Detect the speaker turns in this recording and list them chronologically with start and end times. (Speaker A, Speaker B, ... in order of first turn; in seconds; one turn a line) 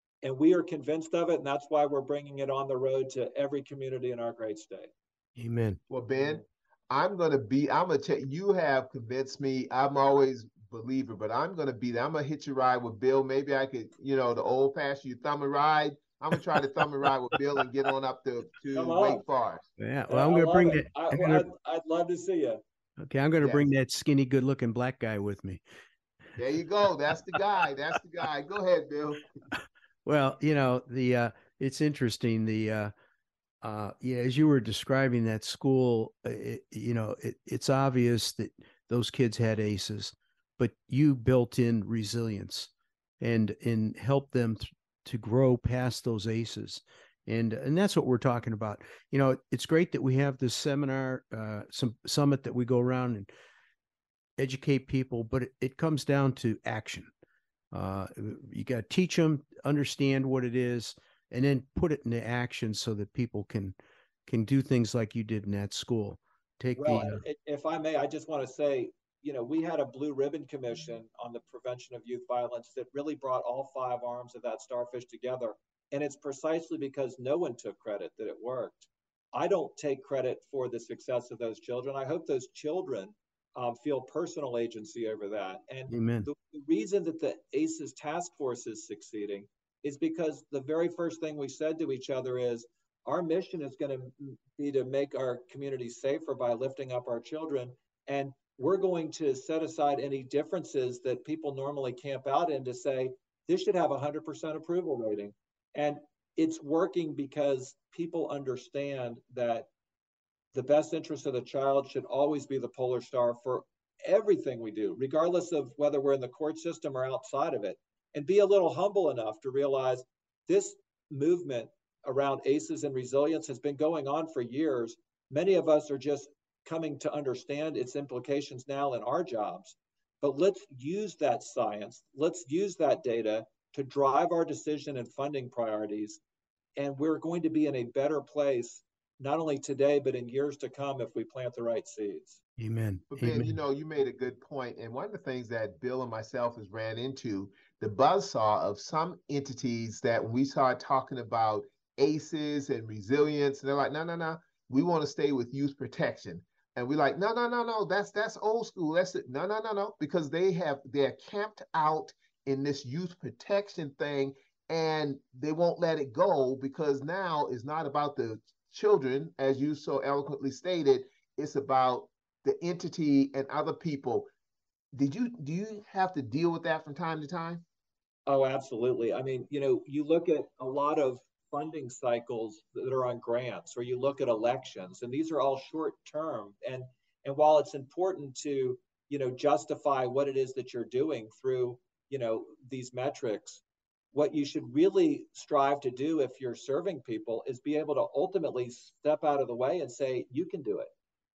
Speaker A: 0.2-4.9
Speaker B: 5.4-5.8
Speaker C: 5.9-19.7
Speaker A: 18.8-19.2
Speaker B: 19.8-21.5
Speaker A: 20.1-22.6
Speaker B: 23.0-25.6
Speaker C: 23.4-23.7
Speaker C: 26.4-29.4
Speaker B: 30.1-32.9
Speaker B: 33.6-53.3
Speaker B: 54.4-57.1
Speaker B: 57.7-67.2
Speaker A: 66.8-109.7
Speaker B: 85.9-86.3
Speaker A: 110.5-136.2
Speaker A: 136.8-142.4
Speaker B: 142.6-143.6
Speaker C: 143.1-174.3
Speaker C: 174.9-177.6
Speaker A: 178.3-193.6
Speaker A: 194.1-200.9